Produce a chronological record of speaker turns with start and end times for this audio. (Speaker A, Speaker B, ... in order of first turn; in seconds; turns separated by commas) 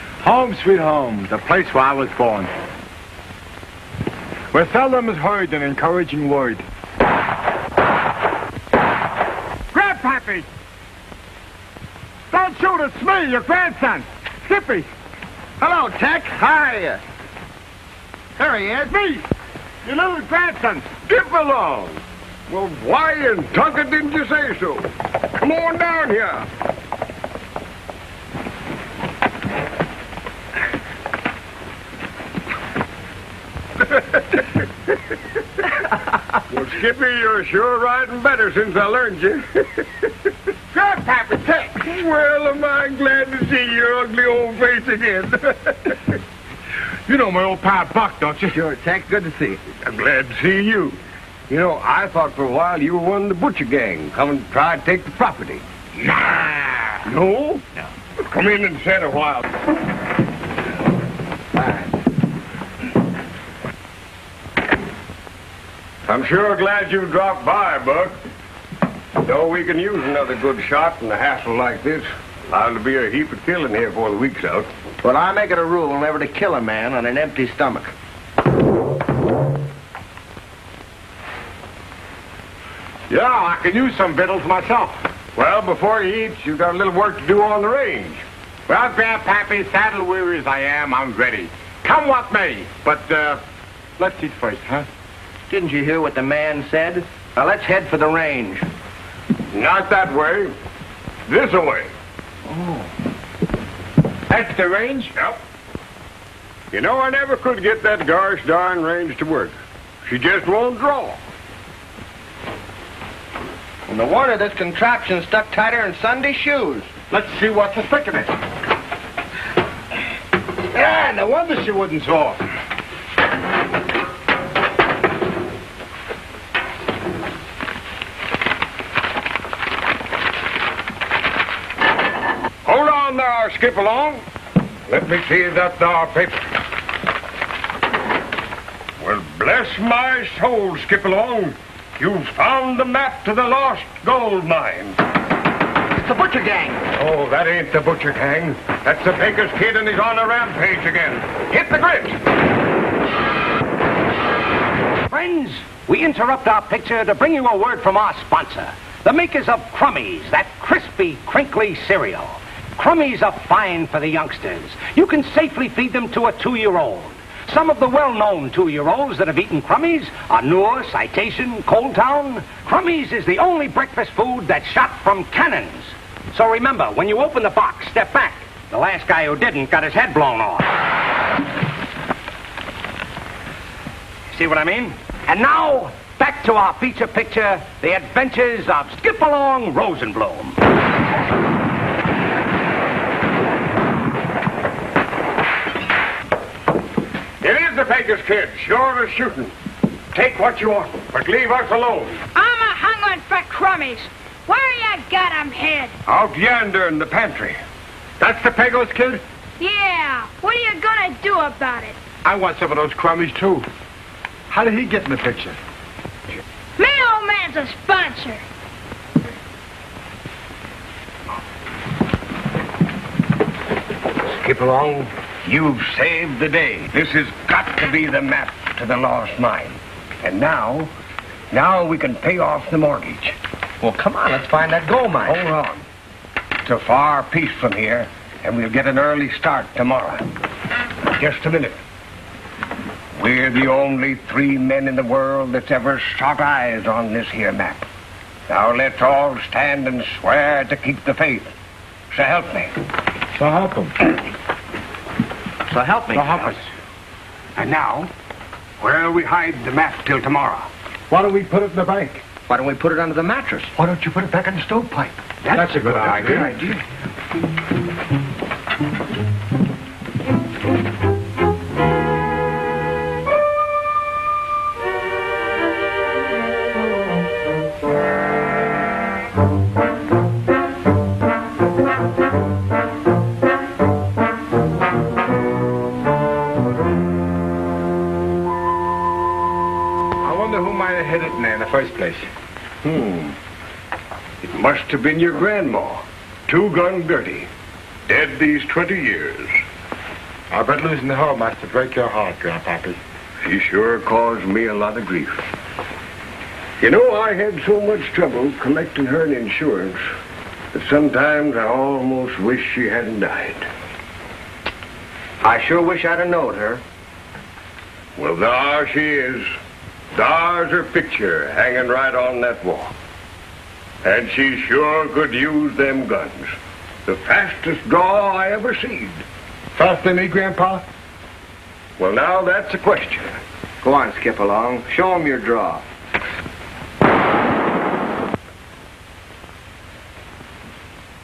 Speaker A: 0.2-2.5, Speaker A: 4.5-6.6, Speaker A: 9.7-10.5, Speaker A: 12.3-14.9, Speaker B: 15.6-17.0, Speaker B: 18.4-19.2, Speaker A: 19.9-20.9, Speaker C: 21.0-26.5, Speaker C: 36.5-40.1, Speaker A: 40.8-41.1, Speaker C: 41.1-46.1, Speaker A: 47.1-48.6, Speaker B: 48.5-49.6, Speaker C: 49.8-51.0, Speaker C: 51.5-57.7, Speaker C: 58.2-59.5, Speaker C: 66.1-68.2, Speaker C: 69.2-74.7, Speaker B: 75.0-77.9, Speaker A: 83.1-85.0, Speaker C: 85.4-88.2, Speaker A: 88.7-93.4, Speaker A: 94.0-94.9, Speaker B: 95.5-98.7, Speaker C: 99.5-100.5, Speaker C: 101.3-101.9, Speaker B: 102.5-102.8, Speaker A: 104.3-105.1, Speaker C: 106.7-111.2, Speaker B: 113.9-116.9, Speaker A: 117.1-118.3, Speaker A: 120.7-122.4, Speaker C: 132.7-134.2, Speaker C: 134.9-136.4, Speaker C: 139.0-145.0, Speaker B: 146.0-146.8, Speaker C: 146.9-152.2, Speaker D: 155.1-180.7, Speaker D: 184.3-190.6, Speaker C: 197.4-199.5, Speaker C: 200.1-202.2, Speaker E: 202.3-205.9, Speaker C: 206.1-207.6, Speaker A: 208.2-209.2, Speaker E: 209.6-212.0, Speaker A: 212.2-213.7, Speaker A: 214.5-215.6, Speaker E: 216.8-218.4, Speaker C: 224.3-230.9, Speaker C: 231.5-233.4, Speaker B: 233.8-235.4, Speaker C: 235.2-235.8, Speaker C: 236.7-240.3, Speaker C: 241.0-241.8, Speaker C: 243.2-247.8, Speaker C: 248.5-251.5, Speaker C: 252.1-252.8, Speaker A: 253.3-253.9, Speaker B: 255.7-256.4, Speaker A: 256.1-256.6, Speaker D: 257.6-258.1, Speaker D: 258.8-260.7, Speaker A: 261.1-262.2, Speaker B: 262.5-263.8, Speaker A: 263.8-264.5, Speaker D: 265.4-266.8, Speaker A: 265.5-266.6, Speaker A: 290.2-292.3, Speaker C: 292.8-293.4, Speaker C: 294.4-297.5, Speaker C: 298.1-299.6, Speaker A: 300.5-303.0, Speaker C: 303.4-305.4, Speaker C: 306.8-310.0, Speaker C: 310.7-313.7, Speaker B: 315.4-316.8, Speaker C: 318.2-319.4, Speaker C: 320.1-322.9, Speaker C: 324.0-326.5, Speaker C: 327.1-329.2, Speaker A: 329.8-330.8, Speaker C: 332.0-333.3, Speaker B: 333.8-335.8